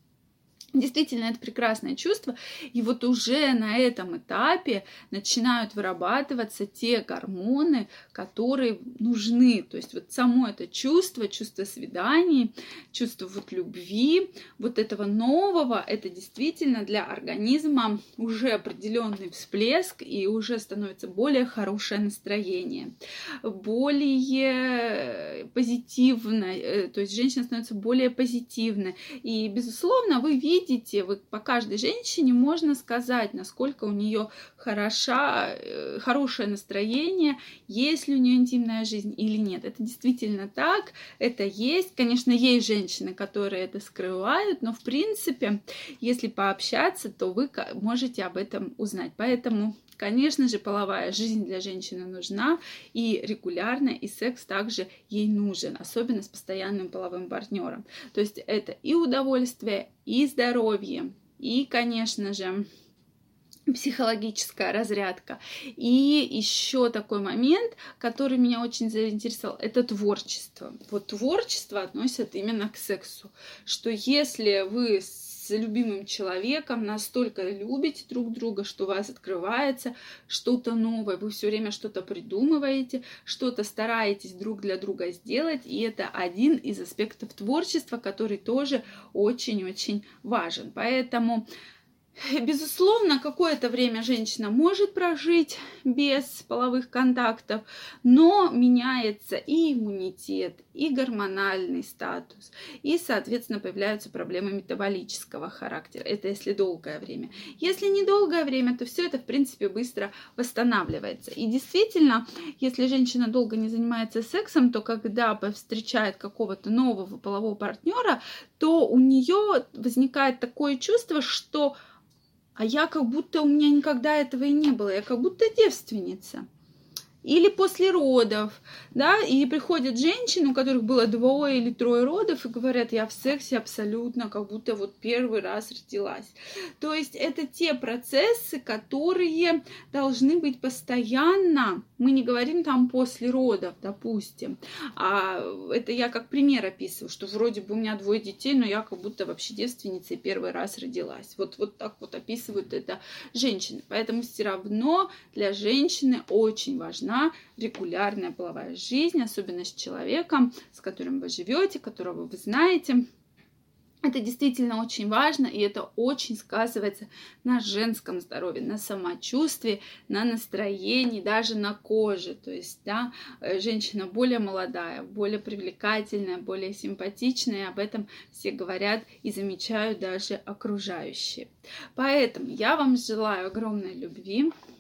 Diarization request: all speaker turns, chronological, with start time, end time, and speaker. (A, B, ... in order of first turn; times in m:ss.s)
0:00.7-1:02.7 A
1:03.7-1:31.4 A
1:32.2-2:01.8 A
2:02.6-2:06.5 A
2:07.2-2:43.1 A
2:44.0-3:04.5 A